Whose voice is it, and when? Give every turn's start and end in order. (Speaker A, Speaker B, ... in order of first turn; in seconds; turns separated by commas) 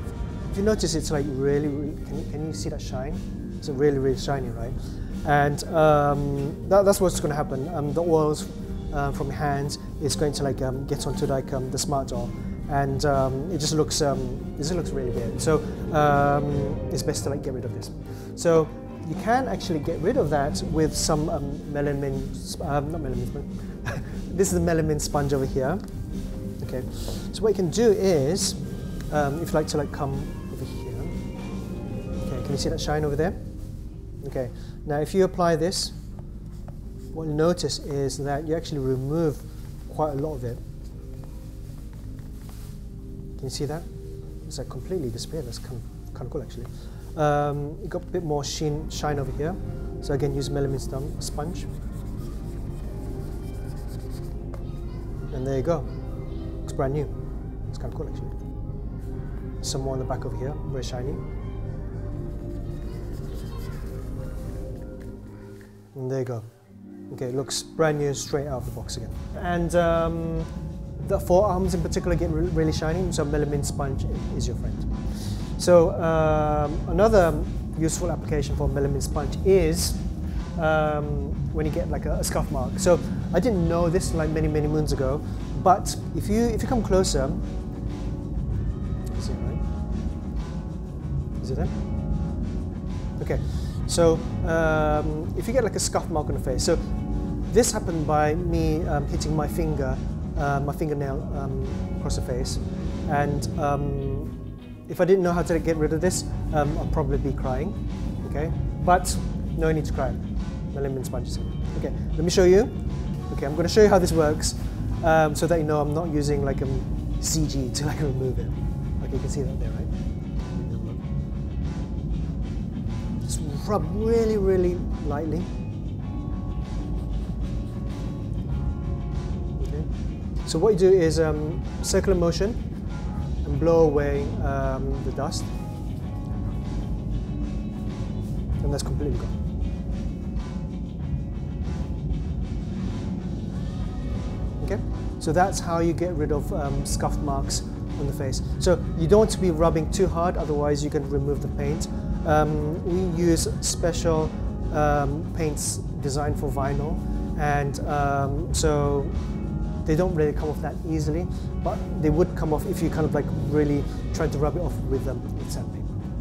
Speaker A: 0.5-25.8, Speaker A: 26.6-31.2, Speaker A: 32.2-33.4, Speaker A: 34.2-36.0, Speaker A: 37.1-40.6, Speaker A: 43.4-43.9, Speaker A: 44.4-51.7, Speaker A: 55.3-55.9, Speaker A: 56.6-57.1, Speaker A: 57.6-58.4, Speaker A: 59.6-61.2, Speaker A: 65.9-66.5, Speaker A: 67.1-87.5, Speaker A: 89.1-89.6, Speaker A: 91.4-91.8, Speaker A: 93.2-96.8, Speaker A: 97.5-104.3, Speaker A: 104.9-112.7, Speaker A: 113.3-121.0, Speaker A: 123.2-125.5, Speaker A: 129.6-132.6, Speaker A: 133.4-135.5, Speaker A: 138.6-139.4, Speaker A: 144.6-159.2, Speaker A: 159.8-166.0